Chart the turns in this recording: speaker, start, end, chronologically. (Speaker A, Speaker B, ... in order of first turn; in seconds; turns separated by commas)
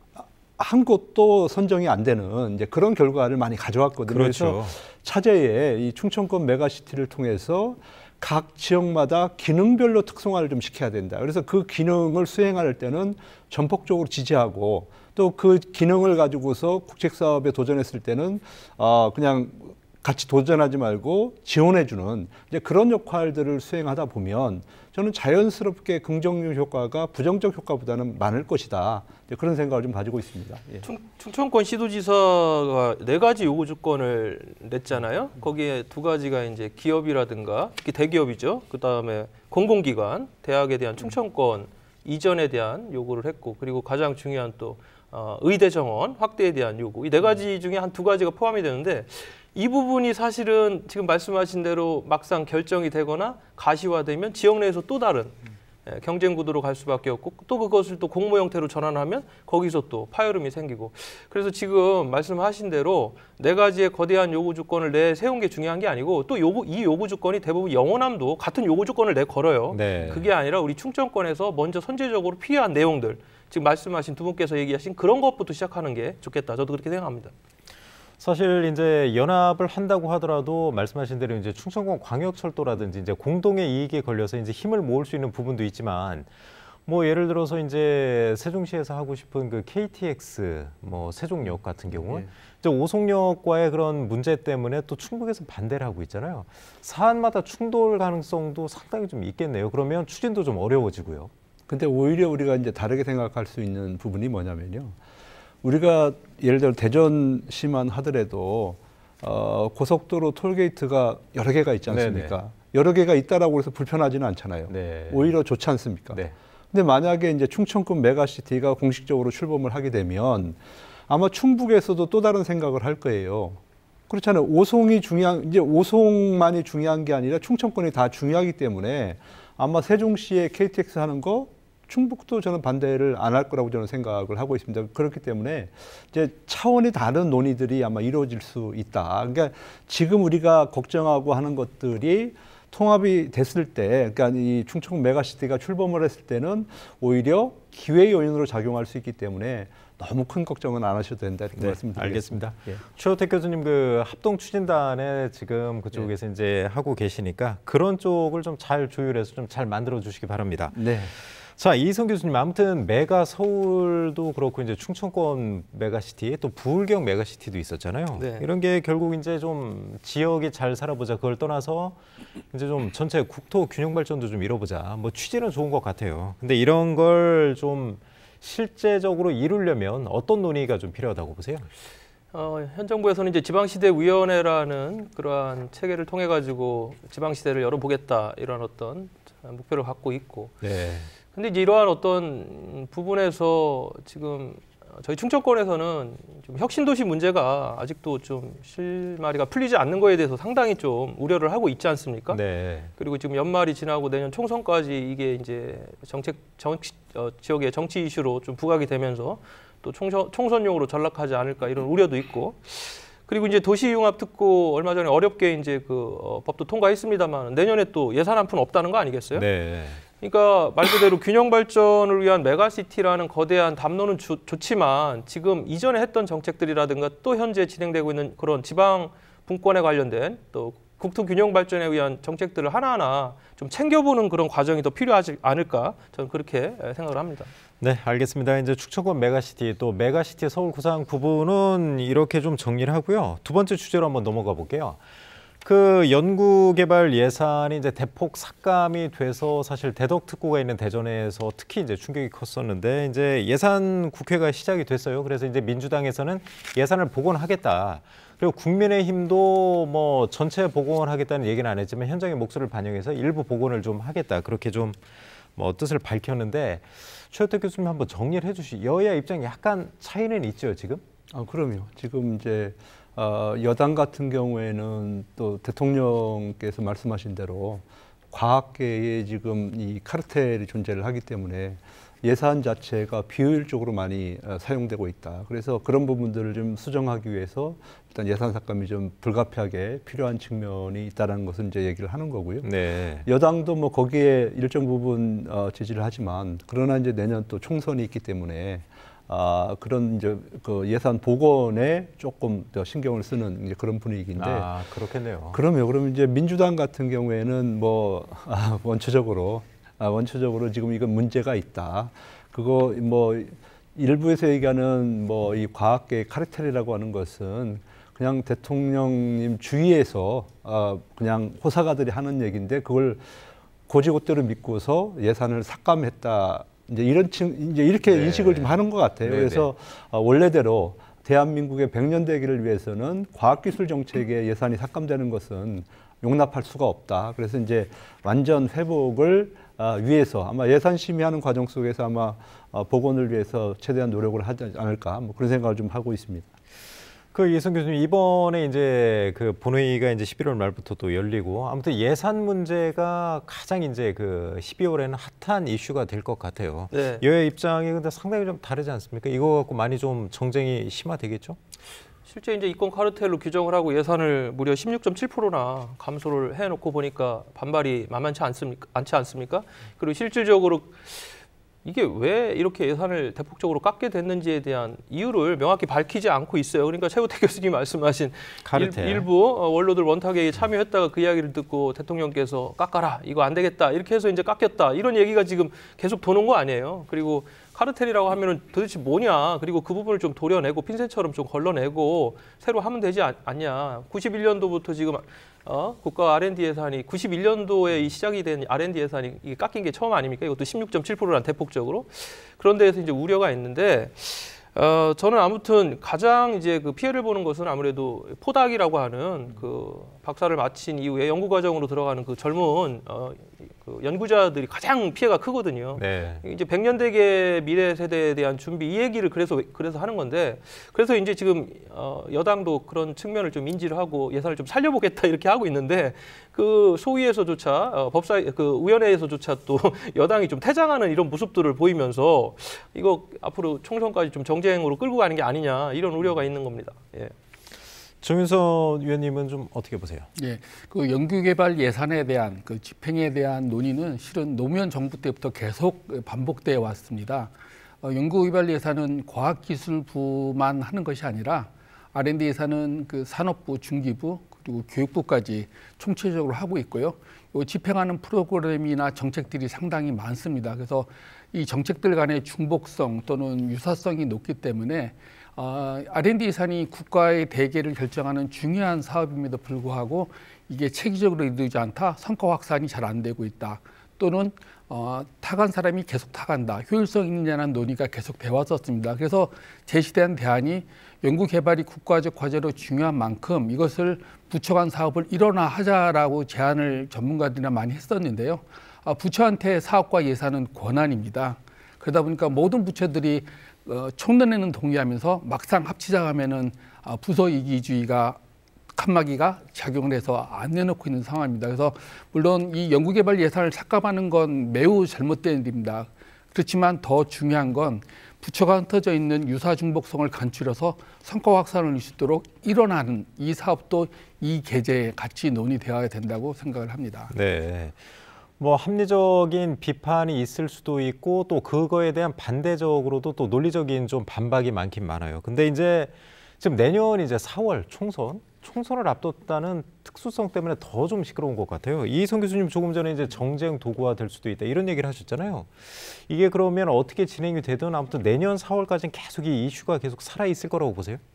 Speaker A: 0.2-30.9, Speaker B: 4.1-4.8, Speaker C: 30.9-77.3, Speaker B: 69.7-70.3, Speaker B: 78.2-86.3, Speaker B: 86.9-101.3, Speaker A: 91.9-92.3, Speaker A: 101.7-105.0, Speaker A: 105.6-152.8, Speaker B: 111.9-112.4, Speaker B: 114.7-115.3, Speaker B: 151.6-172.0, Speaker A: 160.7-161.1, Speaker C: 168.2-168.5, Speaker B: 172.5-181.7, Speaker C: 182.3-190.6, Speaker B: 190.6-191.1, Speaker C: 191.3-202.4, Speaker B: 202.3-202.9, Speaker C: 203.0-219.5, Speaker B: 219.3-220.0, Speaker C: 220.2-237.5, Speaker B: 237.8-245.0, Speaker B: 245.6-265.0, Speaker B: 265.6-271.0, Speaker A: 271.3-292.7, Speaker B: 292.6-293.3, Speaker A: 293.2-304.7, Speaker B: 304.4-305.6, Speaker A: 305.5-323.4, Speaker A: 323.9-346.5, Speaker B: 328.1-329.7, Speaker B: 347.3-361.6, Speaker C: 356.9-357.2, Speaker C: 362.3-437.3, Speaker B: 378.7-379.3, Speaker B: 416.0-416.4, Speaker B: 438.2-440.3, Speaker D: 440.4-447.5, Speaker D: 448.0-498.4, Speaker D: 498.9-517.3, Speaker B: 517.3-518.0, Speaker B: 518.6-541.2